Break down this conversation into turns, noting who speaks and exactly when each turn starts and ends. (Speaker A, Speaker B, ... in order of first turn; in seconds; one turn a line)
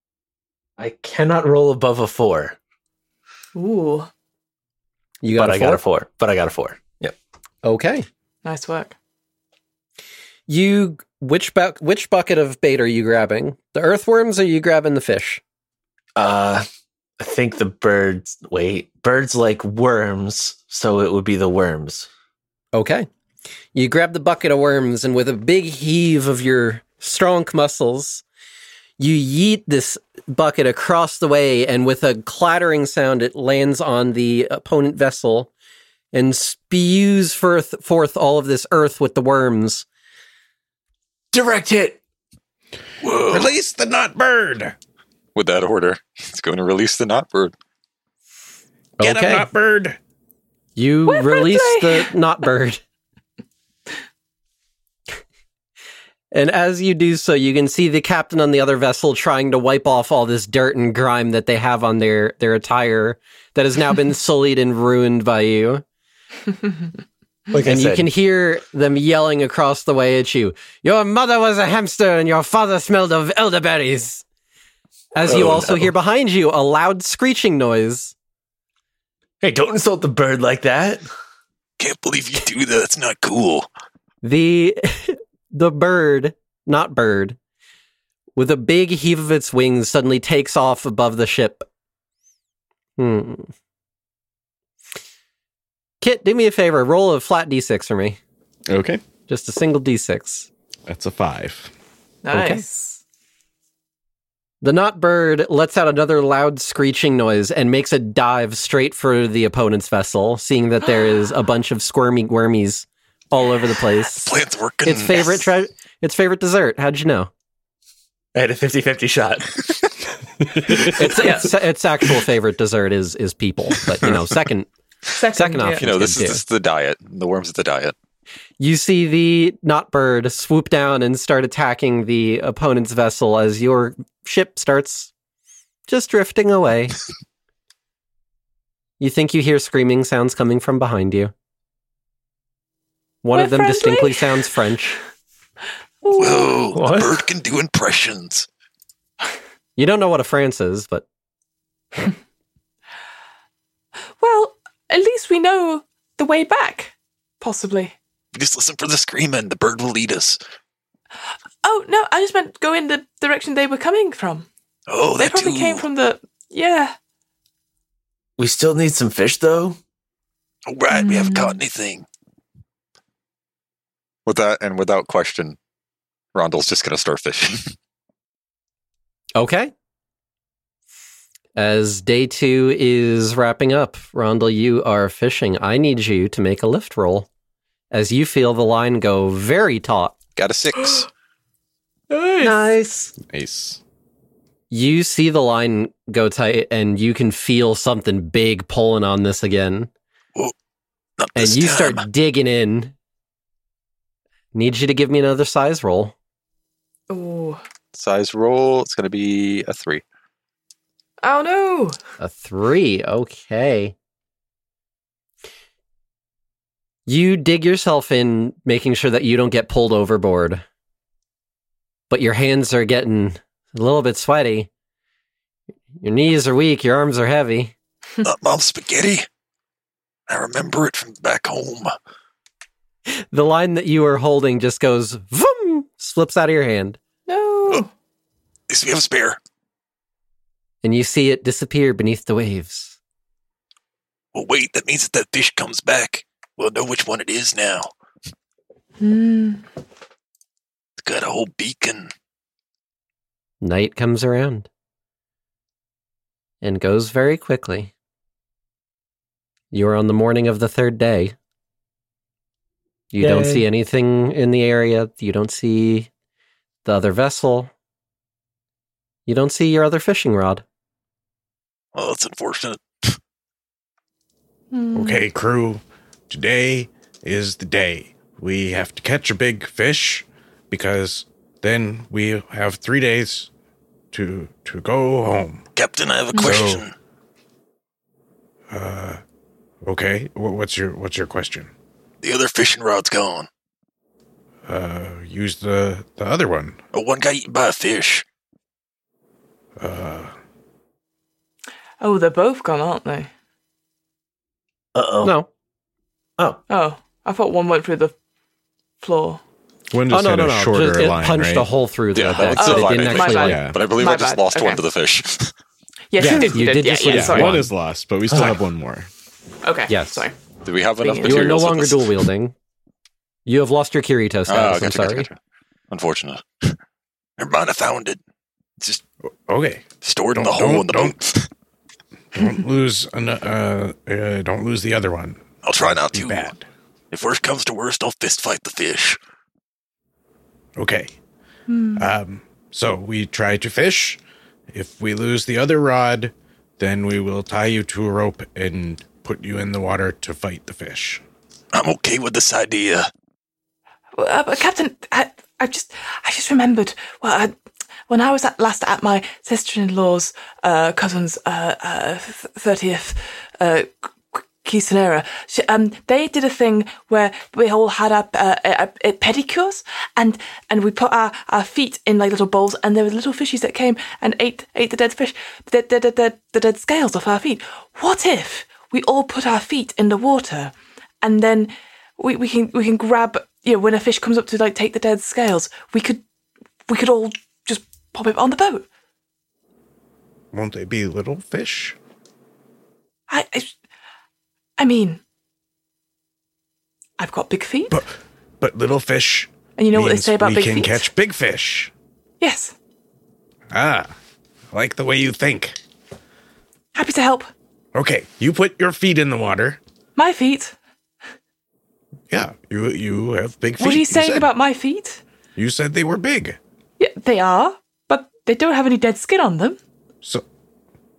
Speaker A: 0.8-2.6
Speaker B: 3.5-4.1
Speaker C: 5.2-5.8
Speaker A: 5.3-7.2
Speaker C: 7.6-8.1
Speaker B: 8.4-9.0
Speaker C: 10.5-15.4
Speaker A: 16.2-16.7
Speaker A: 17.2-22.1
Speaker C: 22.7-23.1
Speaker C: 23.7-28.2
Speaker C: 29.0-35.5
Speaker C: 36.1-39.9
Speaker A: 41.3-42.0
Speaker D: 43.0-43.5
Speaker E: 43.3-44.8
Speaker F: 45.4-47.5
Speaker C: 49.0-49.5
Speaker E: 49.0-50.0
Speaker C: 50.8-52.8
Speaker B: 51.1-52.1
Speaker C: 56.3-65.8
Speaker A: 67.5-68.1
Speaker C: 67.6-74.2
Speaker C: 75.1-78.1
Speaker A: 75.2-75.9
Speaker A: 79.4-81.0
Speaker D: 81.8-83.7
Speaker C: 84.2-87.4
Speaker C: 88.4-91.7
Speaker C: 93.0-93.5
Speaker C: 96.0-98.2
Speaker E: 98.7-99.0
Speaker C: 99.3-100.5
Speaker E: 100.9-101.7
Speaker B: 102.2-103.0
Speaker C: 102.3-102.7
Speaker C: 104.6-117.3
Speaker D: 114.1-115.5
Speaker A: 118.3-119.8
Speaker A: 120.7-121.0
Speaker C: 121.0-124.7
Speaker B: 121.1-121.5
Speaker B: 125.2-125.9
Speaker C: 125.2-126.4
Speaker F: 125.8-128.0
Speaker C: 128.6-135.1
Speaker C: 135.9-136.9
Speaker C: 139.0-141.3
Speaker C: 143.2-145.0
Speaker B: 143.3-144.3
Speaker B: 146.0-146.6
Speaker D: 146.2-148.5
Speaker A: 146.7-147.2
Speaker C: 149.8-151.1
Speaker B: 154.2-157.9
Speaker D: 158.3-160.4
Speaker B: 161.6-164.5
Speaker D: 164.9-165.9
Speaker B: 165.2-166.9
Speaker A: 168.4-169.8
Speaker D: 170.7-172.1
Speaker B: 170.9-171.6
Speaker F: 174.3-175.6
Speaker F: 176.3-177.7
Speaker C: 179.3-179.7
Speaker C: 181.6-187.3
Speaker C: 187.9-190.2
Speaker F: 190.4-191.0
Speaker B: 192.1-192.5
Speaker C: 192.4-193.1
Speaker E: 193.2-193.8
Speaker C: 194.7-199.9
Speaker D: 201.2-202.1
Speaker C: 201.3-202.9
Speaker C: 204.5-206.1
Speaker B: 207.1-207.6
Speaker F: 207.9-210.0
Speaker B: 211.2-212.0
Speaker C: 212.2-213.9
Speaker C: 217.1-220.6
Speaker C: 222.1-224.7
Speaker C: 226.0-227.7
Speaker D: 228.2-229.3
Speaker D: 230.3-231.9
Speaker C: 233.3-237.0
Speaker B: 237.3-237.9
Speaker D: 238.7-239.4
Speaker C: 240.8-243.0
Speaker D: 244.3-247.9
Speaker B: 249.0-249.7
Speaker D: 251.0-252.1
Speaker C: 253.6-254.7
Speaker C: 256.6-257.9
Speaker C: 259.7-261.4
Speaker C: 263.1-266.1
Speaker A: 263.2-263.7
Speaker C: 266.9-267.7
Speaker C: 269.3-270.6
Speaker D: 271.9-273.2
Speaker B: 274.7-275.3
Speaker E: 274.9-283.5
Speaker E: 284.1-285.6
Speaker D: 285.8-286.9
Speaker B: 286.3-286.6
Speaker E: 286.4-286.8
Speaker E: 288.7-289.2
Speaker E: 289.8-291.7
Speaker D: 292.2-293.5
Speaker E: 294.7-296.8
Speaker D: 296.9-298.2
Speaker E: 299.8-300.3
Speaker B: 302.0-303.3
Speaker A: 304.9-305.4
Speaker C: 305.2-305.5
Speaker B: 306.7-308.1
Speaker B: 309.0-309.4
Speaker E: 309.9-311.7
Speaker C: 310.1-313.7
Speaker F: 312.1-315.5
Speaker E: 312.3-313.8
Speaker B: 312.6-314.8
Speaker B: 316.1-317.7
Speaker E: 316.2-319.1
Speaker C: 316.2-317.6
Speaker A: 318.3-318.6
Speaker B: 319.6-320.3
Speaker C: 319.9-320.2
Speaker F: 320.6-322.2
Speaker A: 321.0-321.3
Speaker C: 321.2-322.6
Speaker C: 323.5-325.3
Speaker F: 324.5-325.4
Speaker F: 325.9-326.4
Speaker D: 327.4-328.2
Speaker E: 329.5-331.2
Speaker D: 330.0-331.5
Speaker E: 332.3-336.7
Speaker D: 335.6-336.6
Speaker D: 337.1-339.2
Speaker E: 340.8-341.1
Speaker B: 341.7-342.1
Speaker E: 342.0-344.2
Speaker E: 344.7-351.2
Speaker D: 351.7-353.1
Speaker B: 354.1-357.5
Speaker B: 358.1-386.2
Speaker B: 386.9-388.9
Speaker E: 390.5-392.0
Speaker B: 393.3-393.8
Speaker B: 394.8-395.2
Speaker B: 397.2-398.0
Speaker E: 398.6-401.9
Speaker B: 399.8-401.1
Speaker B: 402.4-402.7
Speaker E: 403.7-404.1
Speaker E: 404.7-405.8
Speaker B: 406.9-407.5
Speaker E: 407.9-409.8
Speaker B: 410.2-410.8
Speaker E: 412.3-414.5
Speaker B: 413.8-415.2
Speaker E: 415.6-416.6
Speaker B: 417.0-419.8